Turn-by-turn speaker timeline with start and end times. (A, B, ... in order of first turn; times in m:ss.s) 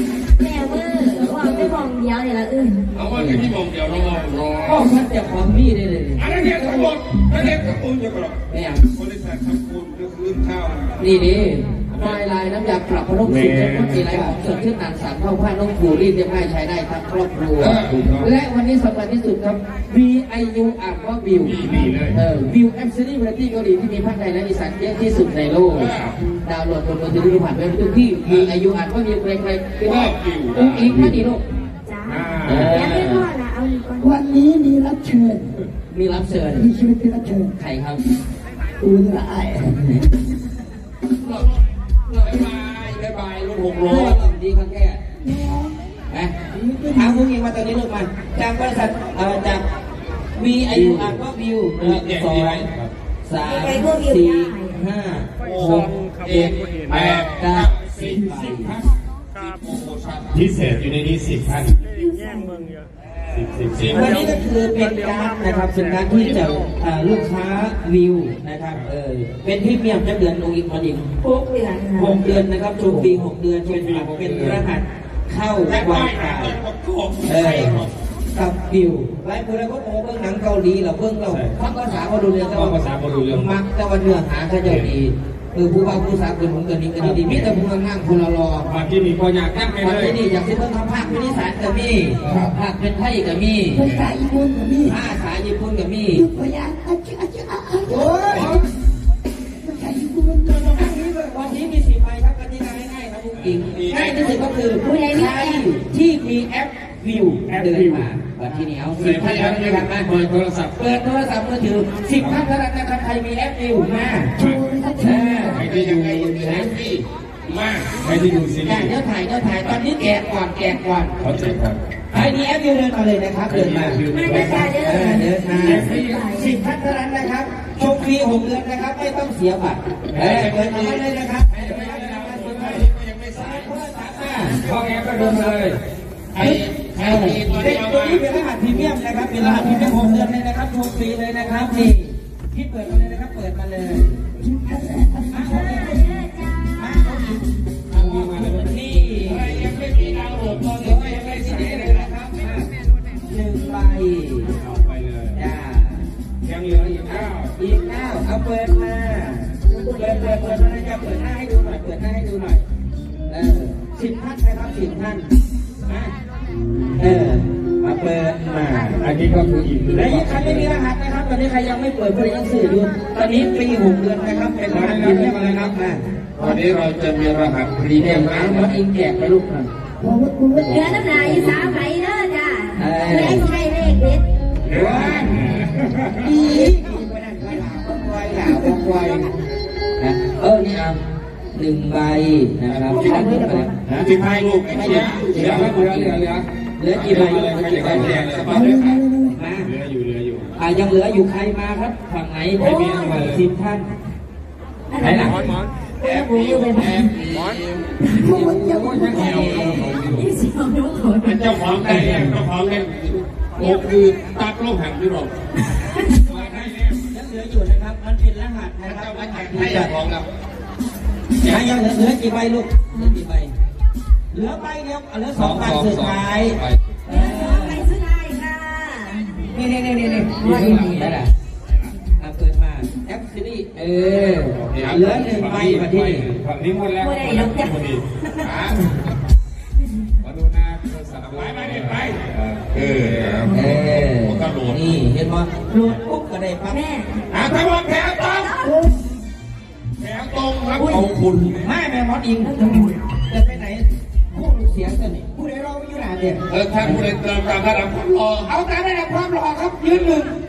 0:00.4-0:02.9 A
0:02.9-0:05.0 B
0:03.1-0:03.4 C
0:04.6-0:06.9 C
0:06.2-0:08.4 B
0:08.5-0:08.8 C
0:08.9-0:10.9 B
0:11.0-0:31.4 C
0:13.2-0:14.4 B
0:17.6-0:18.3 B
0:21.4-0:22.2 B
0:25.6-0:26.2 B
0:28.2-0:28.5 B
0:29.8-0:31.2 B
0:31.9-0:34.2 A
0:32.1-0:33.0 B
0:32.5-0:33.3 C
0:34.0-0:35.5 D
0:35.9-0:36.7 C
0:36.6-0:37.5 D
0:37.6-0:38.0 C
0:38.8-0:40.0 D
0:41.2-0:44.2 B
0:43.8-0:45.0 C
0:45.3-0:45.7 D
0:46.5-0:47.3 D
0:46.9-0:49.6 C
0:50.4-0:52.7 C
0:50.7-0:51.2 B
0:51.8-0:52.9 B
0:53.3-0:58.8 C
0:53.4-0:54.8 A
0:55.4-1:01.8 B
1:01.9-1:02.7 A
1:03.3-1:04.5 B
1:03.9-1:11.1 C
1:06.3-1:06.6 B
1:11.2-1:12.3 A
1:12.0-1:16.6 C
1:12.9-1:14.7 B
1:15.7-1:17.9 B
1:17.3-1:28.8 C
1:21.3-1:21.6 B
1:22.5-1:23.4 B
1:27.0-1:27.5 B
1:28.6-1:30.2 B
1:29.8-1:33.9 C
1:32.2-1:32.5 B
1:33.7-1:35.0 D
1:34.8-1:36.3 C
1:36.1-1:38.5 D
1:37.9-1:38.6 C
1:38.3-1:38.6 B
1:39.6-1:40.9 D
1:40.8-1:50.1 C
1:43.4-1:44.4 B
1:44.8-1:45.7 A
1:47.5-1:48.1 B
1:48.9-1:50.8 B
1:50.8-1:54.4 C
1:52.2-1:52.5 B
1:54.4-1:55.7 D
1:54.4-1:54.6 B
1:55.0-1:56.7 C
1:55.4-1:58.9 B
1:58.7-2:01.2 C
2:01.2-2:01.8 B
2:02.1-2:15.8 C
2:03.5-2:06.3 B
2:04.1-2:06.6 A
2:10.1-2:13.7 B
2:14.5-2:15.8 B
2:16.3-2:18.3 B
2:16.4-2:24.2 C
2:19.3-2:20.3 D
2:24.4-2:25.9 D
2:25.3-2:26.0 C
2:25.4-2:27.4 A
2:26.8-2:29.7 C
2:27.9-2:32.1 B
2:30.7-2:32.7 C
2:33.3-2:34.5 C
2:34.5-2:35.4 B
2:35.4-2:36.1 C
2:36.4-2:37.6 B
2:37.2-2:42.6 C
2:39.7-2:40.7 A
2:43.3-2:45.3 C
2:45.9-2:46.1 C
2:47.0-2:49.0 C
2:49.0-2:50.7 B
2:49.9-2:56.6 C
2:54.7-2:55.7 B
2:56.4-2:58.8 B
2:58.0-2:59.7 C
3:00.0-3:00.9 D
3:00.6-3:01.8 C
3:00.6-3:04.3 A
3:02.8-3:03.5 C
3:04.6-3:06.5 B
3:04.7-3:05.5 C
3:06.2-3:09.3 C
3:08.2-3:09.1 D
3:10.0-3:11.0 C
3:11.5-3:18.7 C
3:12.7-3:19.0 B
3:18.5-3:19.4 D
3:19.3-3:19.7 C
3:19.6-3:20.5 B
3:20.6-3:23.9 C
3:22.6-3:23.3 A
3:22.7-3:23.4 B
3:24.9-3:27.1 A
3:25.0-3:25.3 C
3:25.3-3:30.3 B
3:28.0-3:28.3 A
3:28.2-3:30.0 D
3:28.2-3:30.0 C
3:30.0-3:31.6 A
3:31.2-3:35.3 B
3:31.8-3:32.4 C
3:36.3-3:39.9 C
3:36.3-3:37.0 B
3:38.8-3:40.3 B
3:41.4-3:43.5 C
3:41.4-3:41.8 B
3:44.3-3:47.9 C
3:45.4-3:46.8 B
3:47.1-3:49.5 A
3:49.5-3:51.3 C
3:50.3-3:51.1 A
3:50.4-3:51.2 B
3:52.2-3:56.3 C
3:54.4-3:59.0 B
3:57.0-3:58.6 A
4:00.2-4:04.9 B
4:03.5-4:06.8 C
4:06.7-4:07.2 A
4:07.3-4:08.5 B
4:08.2-4:08.9 A
4:10.0-4:11.7 B
4:10.8-4:11.1 C
4:11.6-4:17.0 C
4:12.4-4:12.9 A
4:16.5-4:18.5 B
4:18.4-4:20.3 C